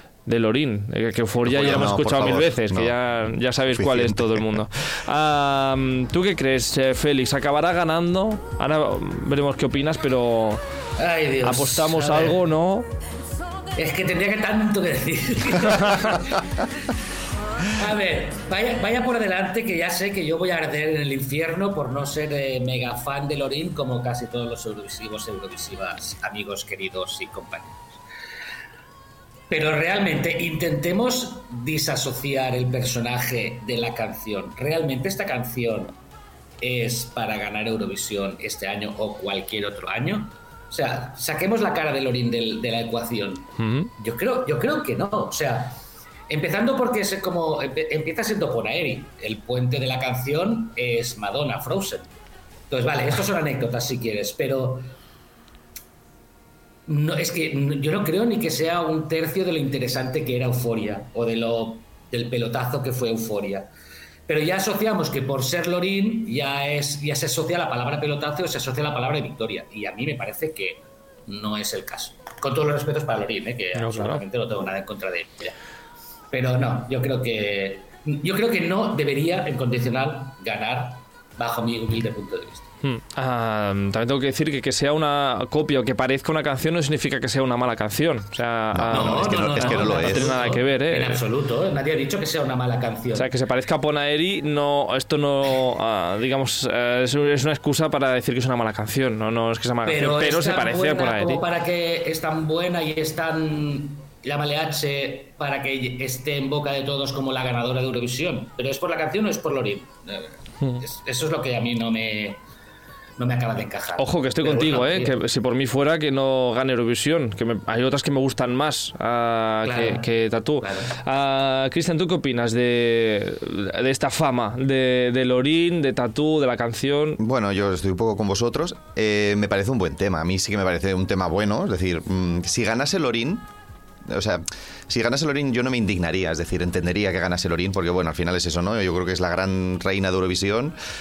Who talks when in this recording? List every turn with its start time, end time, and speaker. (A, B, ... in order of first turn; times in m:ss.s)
0:00.3-0:10.6 A
0:01.4-0:03.0 B
0:03.7-0:04.5 B
0:11.0-0:12.4 C
0:11.4-0:12.9 A
0:13.8-0:16.4 C
0:15.8-0:16.2 A
0:17.7-0:28.0 C
0:29.5-0:36.0 C
0:36.6-0:52.1 C
0:43.6-0:43.9 A
0:52.7-0:54.9 C
0:56.9-1:03.7 C
1:04.3-1:15.6 C
1:13.8-1:14.2 A
1:16.3-1:22.7 C
1:22.8-1:31.2 A
1:28.7-1:30.5 B
1:28.9-1:33.3 C
1:33.2-1:41.4 A
1:39.9-1:52.4 C
1:53.2-1:55.2 C
1:54.0-2:07.2 A
1:59.6-2:00.1 C
2:00.6-2:00.9 C
2:07.2-2:13.5 B
2:14.1-2:20.8 B